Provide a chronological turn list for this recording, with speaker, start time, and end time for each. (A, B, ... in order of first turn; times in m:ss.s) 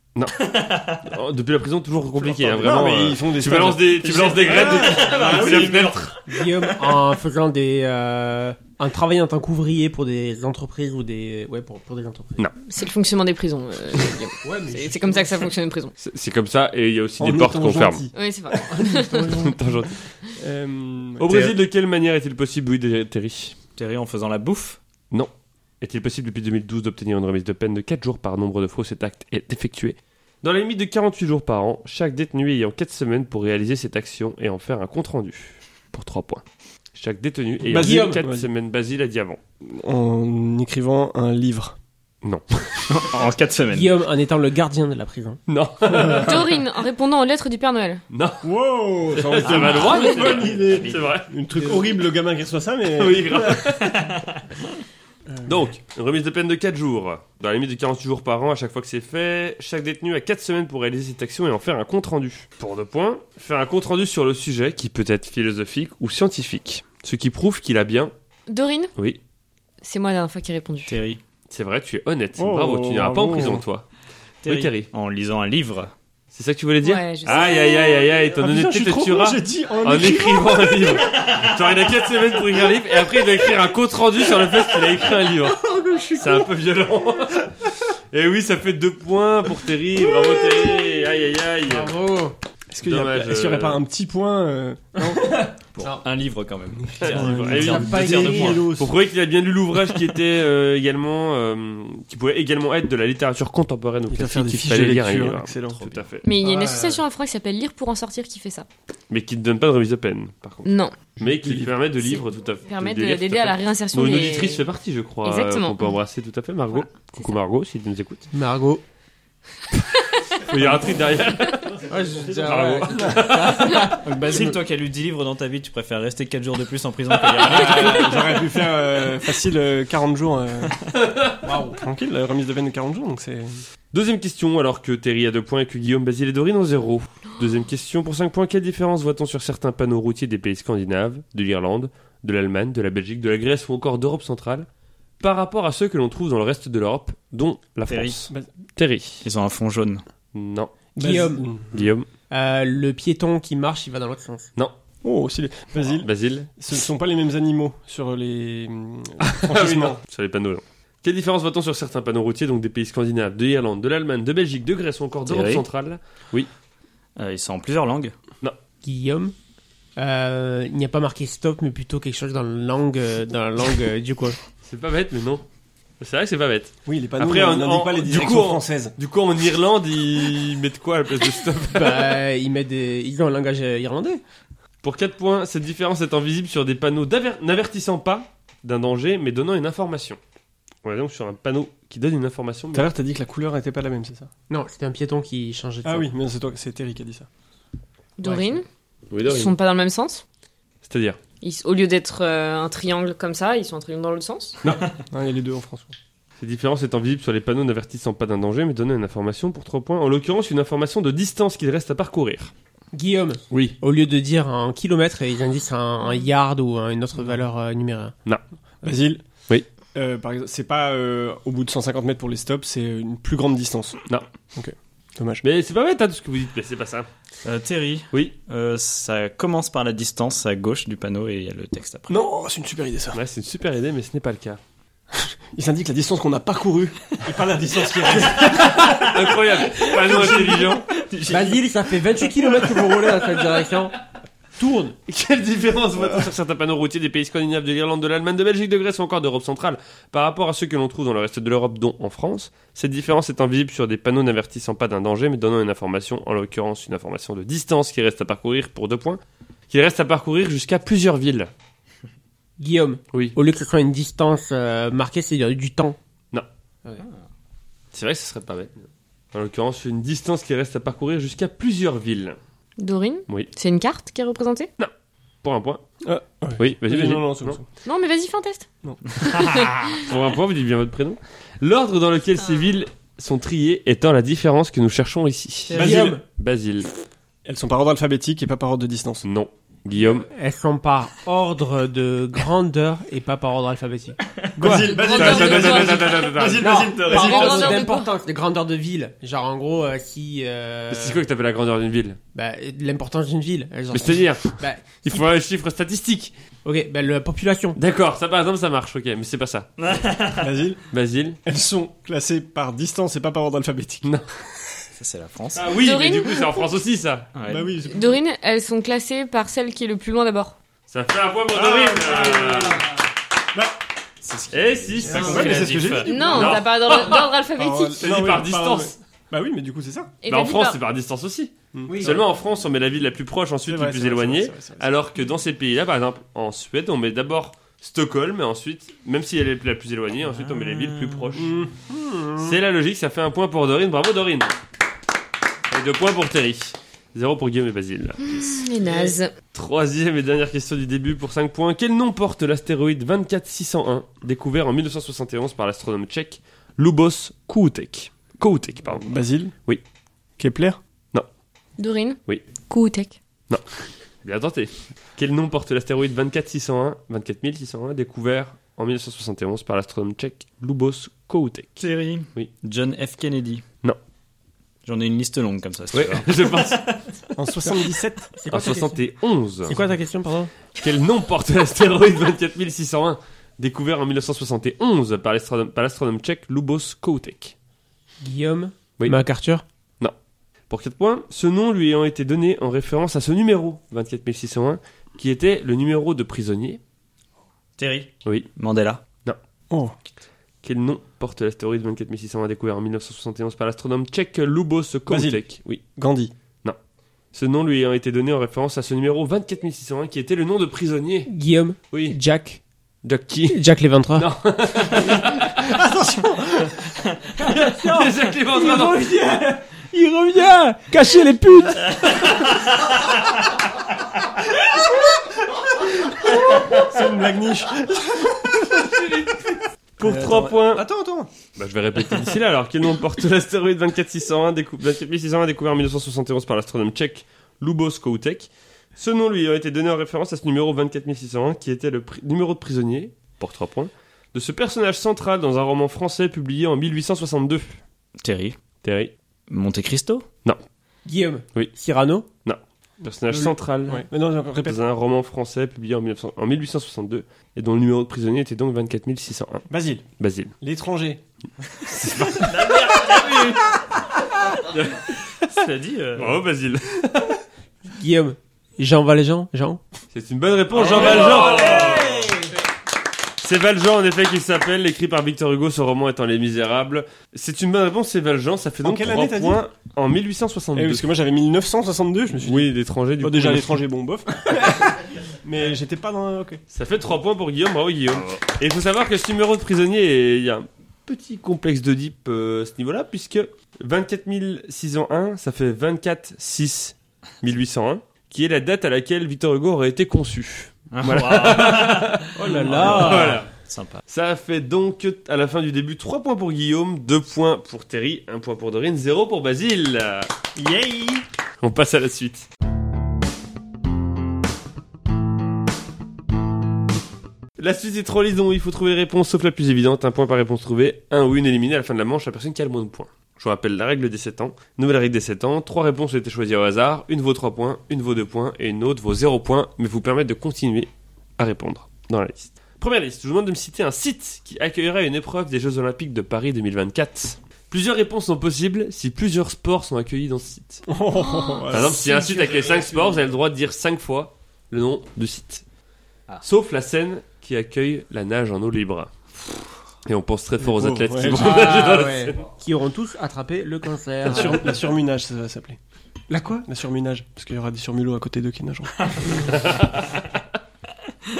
0:00.2-0:00.4 A
0:00.4-0:01.0 B
0:01.0-0:06.2 A
0:02.2-0:05.9 C
0:04.6-0:06.2 B
0:05.1-0:05.6 D
0:06.3-0:12.4 D
0:12.6-0:15.9 E
0:14.4-0:15.1 C
0:14.5-0:15.3 D
0:16.0-0:18.0 A
0:17.2-0:21.6 C
0:18.1-0:19.4 E
0:19.3-0:20.0 A
0:21.2-0:23.6 A
0:23.8-0:24.8 B
0:25.1-0:36.4 A
0:37.0-0:39.4 A
0:37.6-0:38.5 C
0:37.7-0:38.2 D
0:39.6-0:41.8 C
0:42.2-0:43.0 A
0:42.9-0:44.0 B
0:43.7-0:45.4 D
0:45.5-0:46.4 A
0:45.9-0:46.4 C
0:46.1-0:48.0 E
0:48.1-0:48.4 A
0:48.4-0:53.7 C
0:49.1-0:51.3 A
0:49.4-0:51.1 B
0:53.0-0:54.2 A
0:53.9-0:54.4 B
0:55.3-0:55.7 C
0:55.4-1:08.1 A
1:08.5-1:08.9 E
1:09.8-1:11.0 E
1:10.9-1:11.2 B
1:11.5-1:13.8 A
1:12.4-1:13.6 C
1:14.4-1:15.9 B
1:14.4-1:14.9 A
1:16.3-1:25.6 A
1:16.8-1:18.1 E
1:18.3-1:21.1 C
1:25.6-1:26.5 C
1:26.2-1:27.5 A
1:28.1-1:31.9 A
1:31.7-1:32.3 D
1:32.7-1:35.4 C
1:32.8-1:33.8 A
1:35.0-1:36.0 D
1:35.7-1:38.8 B
1:37.0-1:38.9 C
1:37.0-1:46.2 A
1:37.1-1:38.8 D
1:44.1-1:45.8 C
1:45.7-1:46.1 B
1:46.2-1:48.6 E
1:46.4-1:47.0 D
1:49.1-1:58.3 A
1:50.6-1:50.9 E
1:51.2-1:51.7 C
1:52.0-1:54.6 E
1:55.2-1:55.9 E
1:58.3-1:58.8 D
2:00.4-2:01.8 A
2:01.8-2:04.6 D
2:02.4-2:03.9 A
2:02.9-2:03.2 C
2:03.9-2:08.2 B
2:07.4-2:10.8 C
2:11.0-2:11.3 A
2:11.4-2:11.8 D
2:11.7-2:13.6 C
2:13.9-2:24.7 A
2:25.2-2:29.2 A
2:27.9-2:28.2 B
2:29.2-2:30.0 B
2:30.3-2:30.7 A
2:31.0-2:31.5 D
2:31.0-2:31.9 C
2:31.7-2:32.1 A
2:32.3-2:34.5 D
2:35.0-2:40.0 C
2:35.8-2:36.5 A
2:39.2-2:46.5 A
2:45.2-2:45.6 B
2:47.2-2:48.1 B
2:48.8-2:49.3 D
2:50.0-2:54.4 D
2:54.6-2:55.4 A
2:56.0-3:02.2 A
2:56.8-2:58.9 C
3:01.7-3:04.2 D
3:04.8-3:10.2 A
3:10.8-3:12.9 A
3:12.7-3:14.3 C
3:14.5-3:16.1 D
3:15.8-3:17.3 C
3:18.2-3:18.6 E
3:18.2-3:18.6 D
3:19.1-3:19.5 A
3:19.2-3:20.2 E
3:20.8-3:21.2 A
3:21.4-3:24.6 E
3:24.6-3:24.9 A
3:25.1-3:25.9 C
3:26.4-3:32.5 A
3:32.9-3:38.1 D
3:38.8-3:39.2 C
3:39.9-3:44.0 C
3:44.5-3:45.4 C
3:45.4-3:47.1 A
3:47.4-3:52.2 B
3:52.1-3:53.2 C
3:53.1-3:54.6 A
3:55.1-3:58.8 C
3:58.2-4:00.9 A
3:58.8-3:59.1 B
3:59.9-4:00.8 C
4:00.9-4:01.6 B
4:01.3-4:03.9 D
4:02.4-4:02.7 B
4:04.6-4:05.0 D
4:05.1-4:21.5 A
4:22.6-4:26.0 D
4:27.9-4:32.4 A
4:32.8-4:34.7 E
4:35.4-4:35.8 A
4:36.0-4:37.7 C
4:36.6-4:37.6 A
4:37.8-4:38.7 E
4:39.2-4:40.0 E
4:39.2-4:39.7 B
4:40.0-4:46.9 A
4:45.7-4:46.2 D
4:45.7-4:46.2 C
4:47.4-4:49.3 C
4:49.2-4:50.3 A
4:50.3-4:54.2 D
4:54.6-4:57.8 C
4:54.6-4:56.9 A
4:54.6-4:56.2 E
4:56.5-5:01.2 D
4:57.0-4:58.1 E
5:00.9-5:02.2 A
5:02.3-5:05.2 D
5:03.9-5:06.3 A
5:06.6-5:07.8 D
5:07.8-5:10.0 A
5:09.8-5:10.4 B
5:10.4-5:10.8 C
5:10.9-5:11.4 A
5:11.4-5:14.2 C
5:14.9-5:15.8 B
5:15.5-5:17.3 A
5:15.8-5:16.5 E
5:17.3-5:17.7 B
5:17.4-5:18.2 C
5:17.8-5:20.5 E
5:20.9-5:22.8 A
5:21.5-5:22.9 C
5:24.2-5:26.1 B
5:24.5-5:27.2 A
5:25.0-5:30.1 C
5:26.1-5:28.0 E
5:28.0-5:28.9 A
5:30.2-5:30.8 E
5:30.3-5:41.6 A
5:31.7-5:32.2 C
5:31.9-5:32.2 D
5:33.6-5:34.9 C
5:41.3-5:42.6 C
5:42.4-5:44.6 A
5:45.7-5:48.4 A
5:48.2-5:49.3 E
5:48.8-5:49.1 D
5:49.5-5:59.1 A
5:59.0-5:59.5 C
6:00.4-6:00.8 C
6:01.8-6:03.2 E
6:04.2-6:12.5 A
6:11.8-6:13.6 B
6:14.8-6:17.0 B
6:15.9-6:16.9 A
6:17.3-6:18.3 C
6:18.3-6:19.0 D
6:18.5-6:19.8 A
6:19.6-6:20.5 D
6:20.7-6:27.5 A
6:28.2-6:29.6 D
6:30.7-6:36.8 A
6:37.8-6:39.0 B
6:38.2-6:38.5 A
6:39.7-6:39.9 C
6:40.6-6:45.8 A
6:45.1-6:46.3 C
6:47.3-6:51.3 A
6:51.3-6:52.6 D
6:51.9-6:52.2 A
6:53.0-6:53.6 A
6:53.5-6:54.3 D
6:54.1-6:55.8 A
6:55.0-6:56.8 C
6:57.4-7:02.3 D
6:57.4-6:59.1 A
7:06.2-7:08.7 C
7:10.0-7:10.8 A
7:10.0-7:11.3 C
7:11.6-7:27.8 A
7:28.2-7:28.6 B
7:28.8-7:29.1 A
7:29.5-7:30.2 B
7:31.0-7:32.2 D
7:32.4-7:34.0 A
7:33.3-7:34.8 C
7:34.6-7:39.6 A
7:39.7-7:40.0 C
7:40.2-7:40.5 A
7:40.6-7:41.2 C
7:41.8-7:43.5 A
7:42.2-7:43.8 B
7:44.7-7:45.0 A
7:45.4-7:46.4 B
7:46.2-7:47.4 A
7:47.9-7:49.8 D
7:50.1-7:52.1 A
7:50.7-7:52.3 B
7:50.8-7:52.5 D
7:53.4-8:01.1 A
7:58.8-7:59.6 C
8:00.7-8:06.6 C
8:02.4-8:03.8 A
8:06.7-8:23.5 A
8:08.1-8:08.5 B
8:20.9-8:24.0 B
8:22.3-8:23.4 D
8:24.1-8:30.3 A
8:30.6-8:31.2 D
8:31.6-8:32.5 A
8:37.6-9:00.8 A
9:00.9-9:02.1 C
9:01.1-9:02.0 E
9:01.7-9:03.2 D
9:01.7-9:05.6 A
9:06.4-9:09.5 A
9:10.0-9:12.4 A
9:10.6-9:11.9 C
9:11.2-9:14.7 D
9:14.2-9:15.8 C
9:16.3-9:16.6 D
9:16.6-9:19.4 C
9:19.4-9:20.2 A